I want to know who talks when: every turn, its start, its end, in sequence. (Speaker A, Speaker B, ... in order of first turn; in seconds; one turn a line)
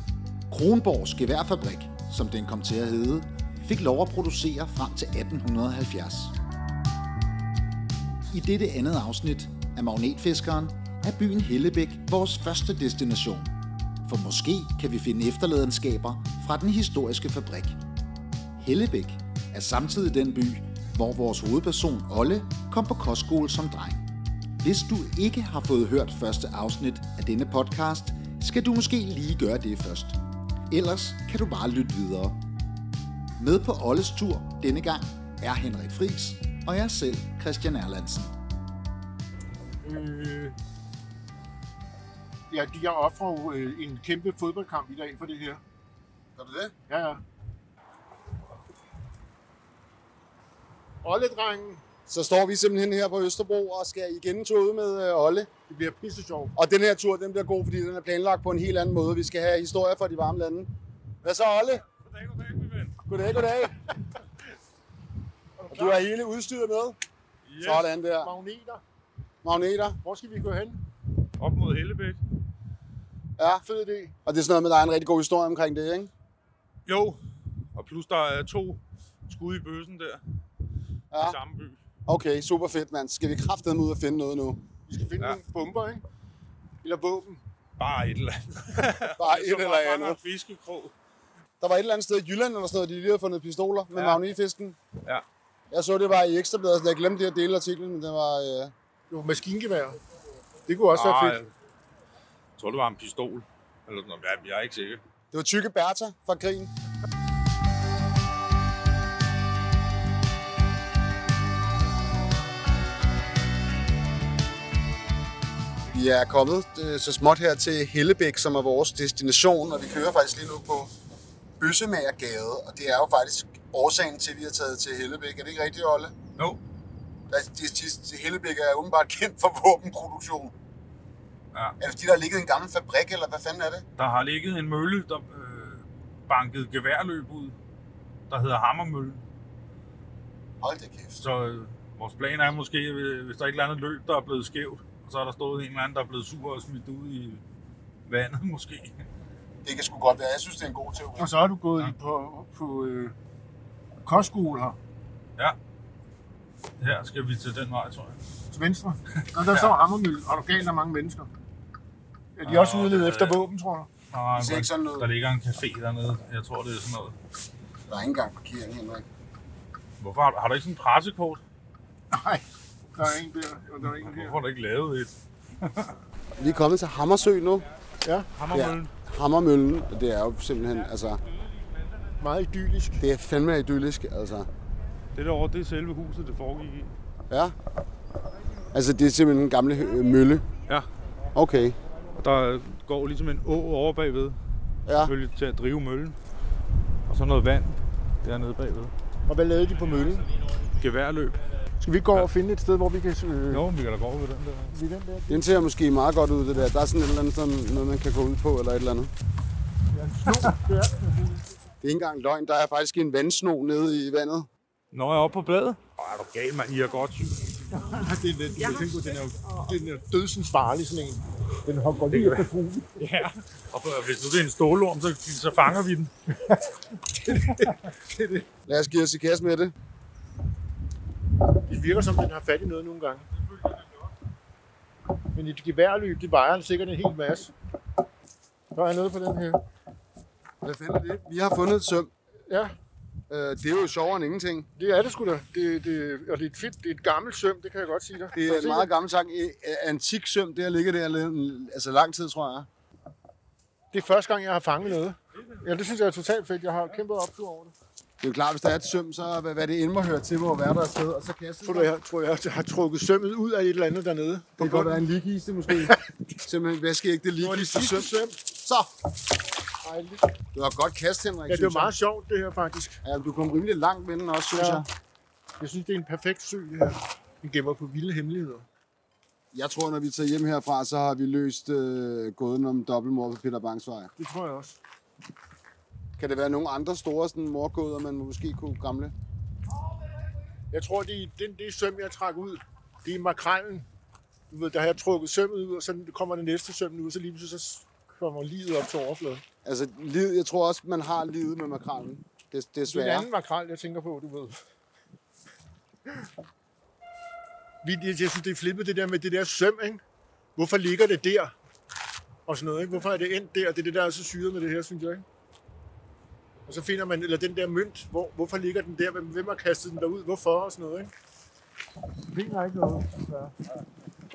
Speaker A: 0.5-6.3
Speaker A: 8.3-13.5
Speaker A: 14.0-17.8
Speaker A: 18.6-24.0
Speaker A: 24.6-30.2
Speaker A: 30.7-32.4
Speaker A: 33.4-38.3
Speaker B: 39.8-40.5
Speaker B: 42.5-45.6
Speaker C: 46.4-46.7
Speaker B: 46.9-47.2
Speaker B: 51.0-51.8
Speaker C: 52.1-55.5
Speaker B: 55.7-56.5
Speaker C: 56.5-60.7
Speaker C: 61.2-61.8
Speaker D: 62.0-62.9
Speaker C: 63.0-63.8
Speaker B: 65.6-66.0
Speaker C: 65.7-67.0
Speaker D: 67.5-67.9
Speaker C: 67.6-68.3
Speaker B: 68.2-68.8
Speaker C: 69.4-70.0
Speaker B: 70.0-70.8
Speaker D: 71.4-72.2
Speaker C: 73.4-73.6
Speaker B: 73.6-74.1
Speaker C: 74.2-76.1
Speaker D: 76.9-77.2
Speaker D: 77.7-80.2
Speaker C: 81.1-81.4
Speaker D: 81.2-81.8
Speaker C: 82.0-84.6
Speaker B: 84.9-86.0
Speaker B: 86.8-87.4
Speaker D: 87.8-90.9
Speaker C: 89.2-90.2
Speaker C: 91.6-94.8
Speaker C: 95.7-98.7
Speaker B: 99.1-100.0
Speaker B: 100.7-101.4
Speaker D: 100.9-101.5
Speaker D: 102.6-105.0
Speaker C: 105.3-106.7
Speaker C: 115.9-120.9
Speaker C: 121.6-126.1
Speaker C: 127.3-130.5
Speaker C: 131.8-133.8
Speaker D: 134.0-137.5
Speaker D: 138.3-139.2
Speaker C: 140.6-141.2
Speaker D: 141.2-147.4
Speaker D: 148.1-148.9
Speaker C: 149.6-151.3
Speaker B: 151.2-153.1
Speaker B: 154.1-154.8
Speaker D: 156.8-158.2
Speaker B: 158.5-161.3
Speaker B: 162.4-163.9
Speaker D: 162.4-163.4
Speaker D: 164.1-167.2
Speaker C: 164.3-165.1
Speaker C: 167.9-169.1
Speaker D: 170.0-171.4
Speaker B: 172.1-172.4
Speaker B: 172.9-174.4
Speaker D: 173.8-175.9
Speaker C: 176.4-177.7
Speaker B: 178.0-178.3
Speaker D: 178.3-178.9
Speaker C: 178.5-181.2
Speaker B: 182.2-183.0
Speaker C: 183.0-184.5
Speaker D: 185.1-186.9
Speaker C: 187.3-187.5
Speaker C: 188.7-190.4
Speaker C: 191.3-191.8
Speaker D: 192.2-194.4
Speaker C: 194.8-195.1
Speaker D: 195.0-196.2
Speaker D: 197.1-198.9
Speaker B: 199.3-200.3
Speaker D: 200.6-201.4
Speaker B: 201.8-203.6
Speaker D: 203.5-204.7
Speaker B: 204.7-205.5
Speaker C: 205.3-209.1
Speaker B: 209.9-211.4
Speaker C: 211.8-214.5
Speaker D: 214.9-217.4
Speaker B: 217.7-223.0
Speaker D: 222.1-226.1
Speaker B: 227.2-228.4
Speaker C: 228.7-229.7
Speaker B: 231.7-233.2
Speaker B: 235.3-237.5
Speaker B: 238.7-239.6
Speaker C: 240.6-242.1
Speaker B: 242.5-242.7
Speaker C: 243.3-244.7
Speaker B: 244.8-248.9
Speaker C: 248.3-252.7
Speaker B: 253.9-257.7
Speaker C: 258.2-261.9
Speaker B: 261.6-265.0
Speaker C: 264.6-268.9
Speaker B: 267.4-268.4
Speaker B: 269.8-270.3
Speaker C: 270.5-271.9
Speaker B: 271.5-273.0
Speaker C: 273.0-274.9
Speaker B: 274.5-274.8
Speaker B: 275.6-278.6
Speaker C: 279.5-284.1
Speaker B: 284.2-284.8
Speaker C: 286.2-289.1
Speaker B: 290.7-293.9
Speaker B: 294.5-299.4
Speaker C: 299.6-303.3
Speaker B: 302.9-304.6
Speaker B: 307.8-310.0
Speaker B: 310.6-311.5
Speaker B: 312.5-315.2
Speaker B: 316.7-321.1
Speaker B: 322.3-323.5